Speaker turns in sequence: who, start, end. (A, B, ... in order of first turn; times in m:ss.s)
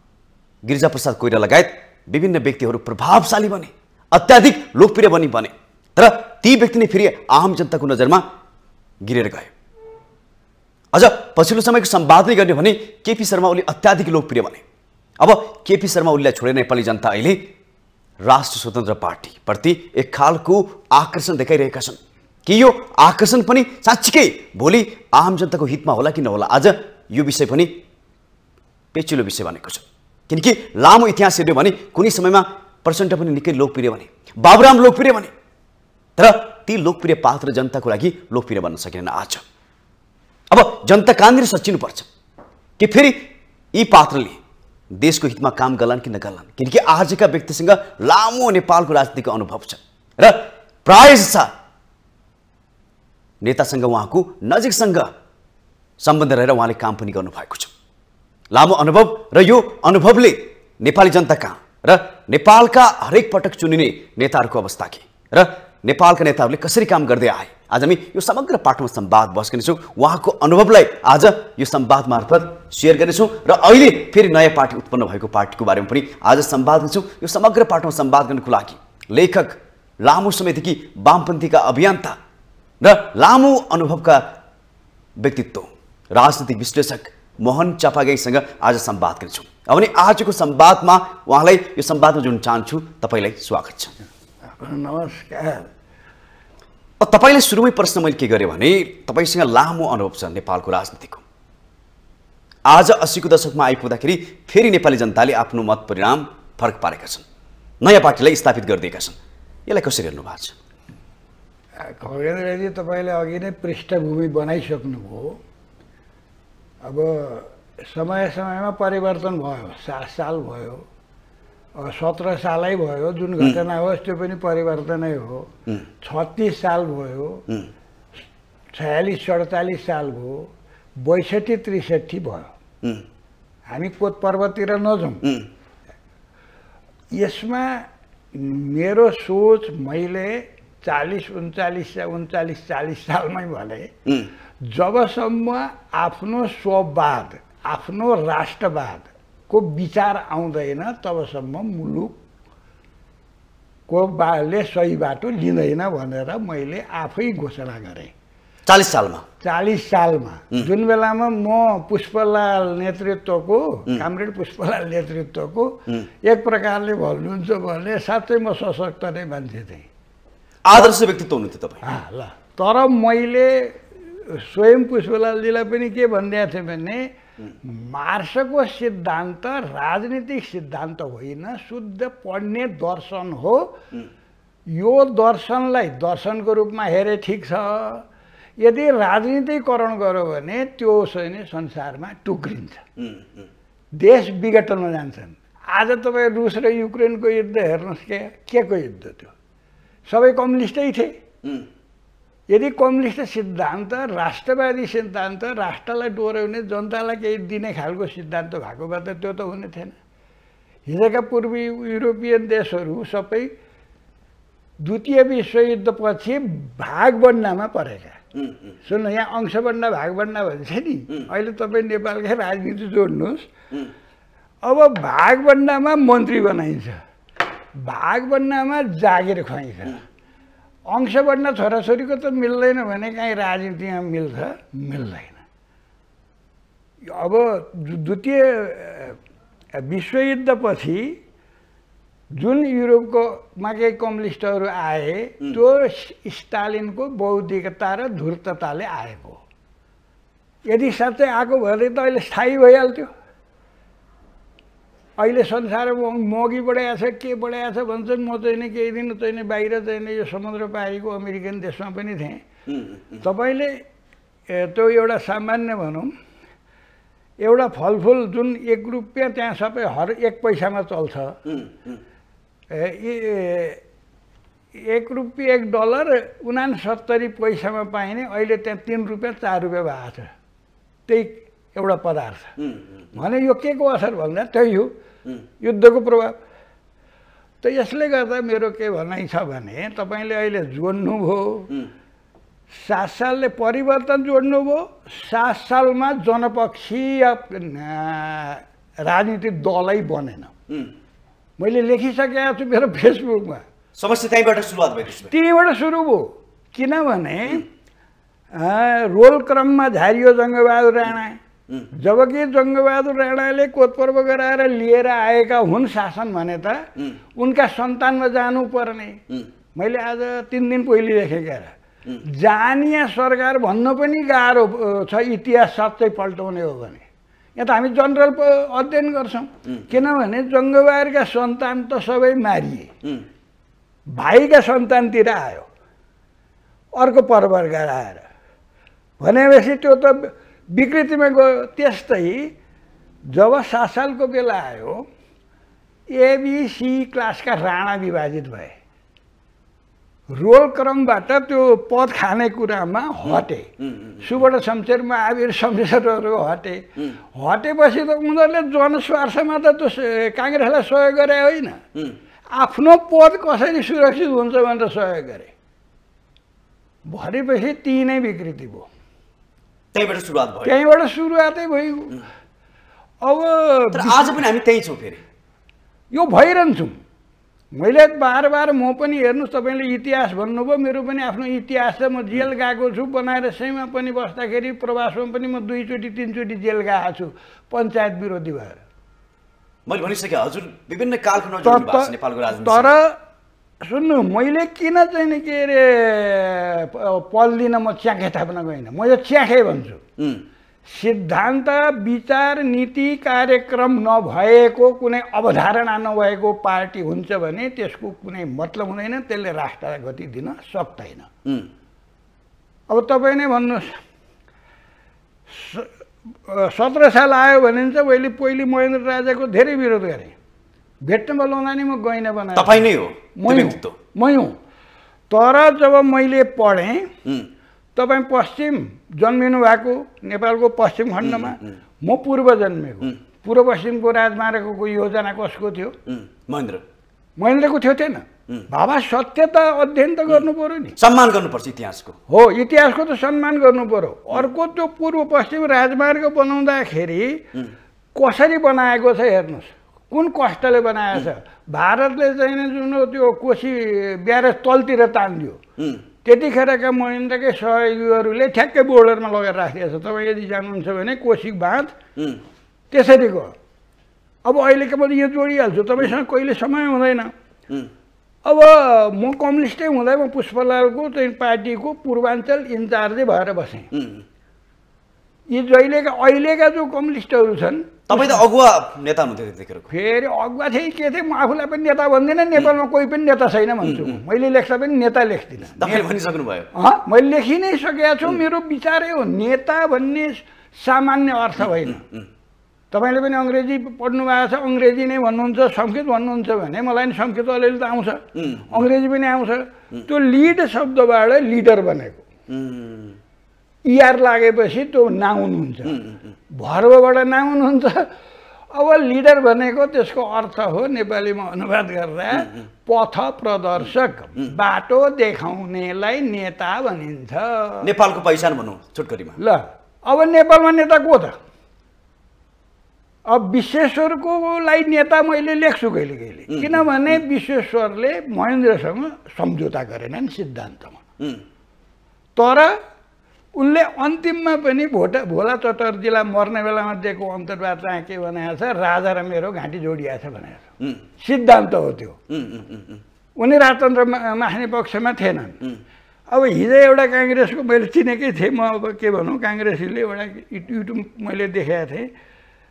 0:00.6-0:08.2 A
0:09.0-0:09.5 A
0:10.9-0:14.6 A
0:15.2-0:17.4 A
0:18.2-0:27.7 A
0:28.9-0:35.3 A
0:36.2-0:39.4 A
0:40.5-0:42.1 A
0:42.8-0:43.2 A
0:43.7-0:44.4 A
0:45.0-0:51.5 A
0:53.4-0:55.1 A
0:56.0-0:57.7 A
0:58.5-1:22.2 A
1:22.8-1:24.2 A
1:25.2-1:33.9 A
1:34.5-1:35.7 B
1:37.0-1:41.2 A
1:42.7-1:47.2 A
1:47.8-1:50.6 A
1:51.8-1:55.4 B
1:56.8-2:00.8 B
2:01.8-2:07.4 B
2:08.7-2:10.5 B
2:11.0-2:12.5 B
2:13.7-2:15.2 B
2:17.1-2:23.9 B
2:24.6-2:32.2 B
2:33.9-2:38.1 B
2:38.6-2:39.2 A
2:39.4-2:49.9 B
2:50.6-2:51.8 A
2:51.8-2:57.0 B
2:57.6-3:03.8 B
3:04.7-3:08.0 B
3:08.6-3:12.8 B
3:13.0-3:13.4 A
3:14.0-3:19.3 B
3:20.1-3:21.1 B
3:22.5-3:29.9 B
3:30.9-3:33.5 B
3:34.8-3:38.2 B
3:38.8-3:43.5 B
3:44.6-3:47.0 B
3:47.8-3:50.0 B
3:50.9-3:55.4 B
3:57.0-3:59.2 B
3:59.8-4:01.2 B
4:02.4-4:09.4 B
4:10.7-4:13.1 B
4:15.2-4:22.4 B
4:22.7-4:23.2 A
4:23.2-4:23.8 B
4:24.5-4:26.1 B
4:27.4-4:31.4 B
4:31.4-4:32.0 A
4:32.7-4:33.8 B
4:34.8-4:40.3 B
4:41.1-4:42.5 B
4:42.6-4:42.8 A
4:43.1-4:44.9 B
4:45.6-4:46.4 B
4:47.6-4:51.7 B
4:52.7-5:00.5 B
5:01.6-5:03.6 B
5:04.0-5:05.3 A
5:05.3-5:07.6 B
5:08.5-5:11.4 B
5:11.9-5:16.8 B
5:17.4-5:19.2 B
5:19.7-5:27.0 B
5:27.6-5:32.9 B
5:34.1-5:35.7 B
5:37.0-5:38.3 B
5:39.2-5:42.5 B
5:43.3-5:45.0 B
5:46.1-5:48.8 B
5:50.3-5:53.7 B
5:53.9-5:54.2 A
5:54.2-6:01.8 B
6:02.5-6:05.5 B
6:07.1-6:08.9 B
6:09.9-6:10.8 A
6:10.6-6:12.2 B
6:13.2-6:14.4 B
6:13.9-6:15.2 A
6:16.1-6:17.0 B
6:17.8-6:28.8 B
6:29.9-6:32.9 A
6:31.6-6:33.2 B
6:33.8-6:40.0 B
6:40.2-6:40.4 A
6:40.9-6:51.3 B
6:52.9-6:54.0 B
6:55.5-6:55.9 B
6:56.5-7:00.3 B
7:01.0-7:04.5 B
7:02.5-7:04.0 A
7:05.3-7:07.1 B
7:08.0-7:15.9 B
7:11.2-7:11.6 A
7:16.0-7:16.8 A
7:17.4-7:21.0 B
7:21.0-7:22.1 A
7:22.3-7:27.4 B
7:28.1-7:35.6 B
7:36.2-7:41.9 B
7:42.2-7:42.4 A
7:42.9-7:43.5 B
7:44.4-7:47.3 B
7:48.4-7:53.9 B
7:53.9-7:54.2 A
7:55.5-7:58.4 B
7:58.1-7:59.9 A
7:59.9-8:06.1 B
8:03.8-8:04.2 A
8:05.8-8:06.7 A
8:06.7-8:12.0 B
8:11.8-8:12.3 A
8:12.9-8:22.2 B
8:18.3-8:18.8 A
8:22.5-8:23.2 A
8:23.9-8:28.1 B
8:25.9-8:26.2 A
8:28.7-8:37.9 B
8:37.8-8:39.4 A
8:39.4-8:41.4 B
8:43.3-8:51.0 B
8:46.5-8:46.8 A
8:52.4-8:52.7 B
8:53.6-9:02.2 B
9:02.3-9:03.0 A
9:03.4-9:05.6 B
9:06.3-9:12.1 B